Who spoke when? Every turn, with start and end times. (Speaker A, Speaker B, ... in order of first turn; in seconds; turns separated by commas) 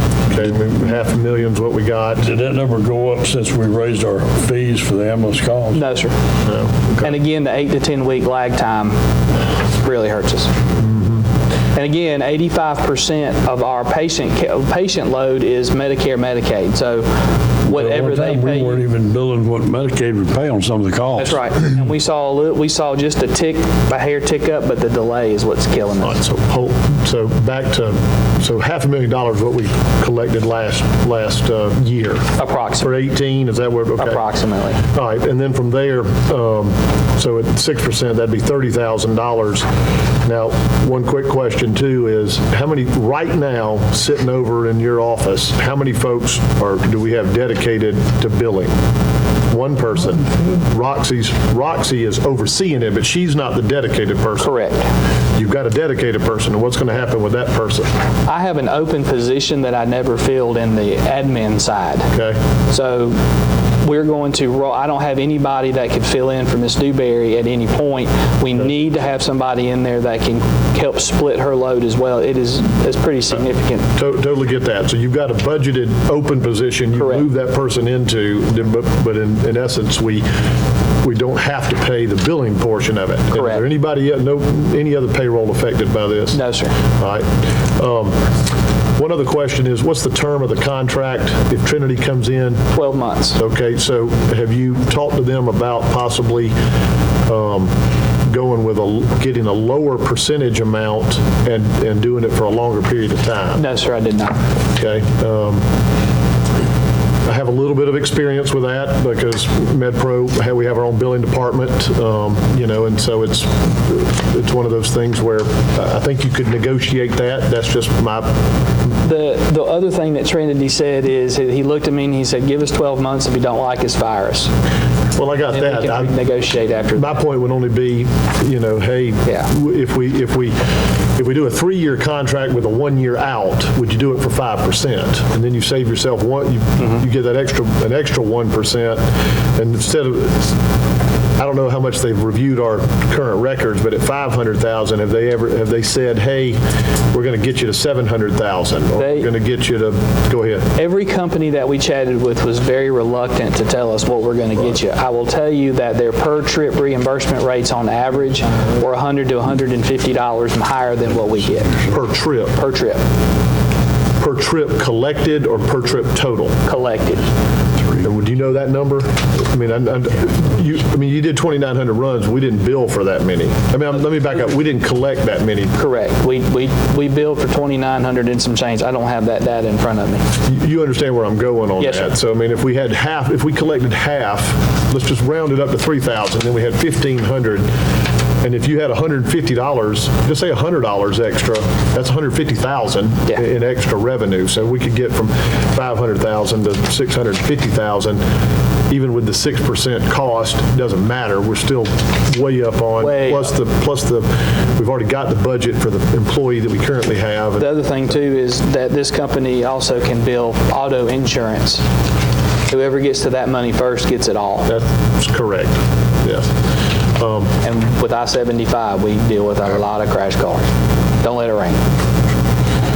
Speaker A: 0.3-2.3, Speaker B: 2.2-5.8, Speaker C: 5.7-6.1, Speaker A: 6.4-7.1, Speaker C: 7.0-8.9, Speaker C: 9.8-10.5, Speaker A: 10.8-11.2, Speaker C: 11.7-18.8, Speaker B: 17.7-21.4, Speaker C: 21.2-26.2, Speaker A: 26.0-32.2, Speaker C: 32.4-32.9, Speaker A: 32.8-34.2, Speaker C: 34.0-34.8, Speaker A: 34.9-39.6, Speaker A: 40.2-48.7, Speaker A: 49.5-54.5, Speaker C: 54.4-54.8, Speaker A: 55.4-57.9, Speaker C: 58.2-62.1, Speaker C: 62.7-63.2, Speaker C: 63.8-73.9, Speaker A: 74.0-80.2, Speaker C: 77.0-77.2, Speaker A: 81.0-86.4, Speaker C: 83.3-83.6, Speaker C: 86.3-86.8, Speaker A: 87.0-87.2, Speaker A: 87.8-88.2, Speaker A: 89.0-92.6, Speaker C: 92.7-93.4, Speaker A: 93.4-96.5, Speaker A: 97.3-97.7, Speaker A: 98.3-103.6, Speaker C: 103.5-104.4, Speaker A: 104.8-105.6, Speaker A: 107.2-118.3, Speaker C: 119.0-124.5, Speaker A: 125.2-126.2, Speaker C: 125.5-127.2, Speaker A: 126.9-130.6, Speaker C: 129.2-129.5, Speaker A: 131.2-139.0, Speaker A: 139.6-140.6, Speaker A: 141.4-146.6, Speaker A: 147.1-150.7, Speaker C: 149.0-149.3, Speaker C: 150.7-161.8, Speaker A: 161.9-162.6, Speaker C: 162.6-163.0, Speaker A: 164.2-166.6, Speaker C: 166.7-167.3, Speaker A: 168.0-175.7, Speaker C: 175.7-180.2, Speaker A: 180.4-187.7, Speaker C: 181.8-182.1, Speaker A: 188.4-198.2, Speaker A: 198.9-207.8, Speaker C: 203.0-203.5, Speaker C: 207.6-211.8, Speaker C: 212.7-214.7, Speaker A: 214.7-216.5, Speaker A: 217.2-217.5, Speaker C: 217.6-220.7, Speaker C: 221.2-221.8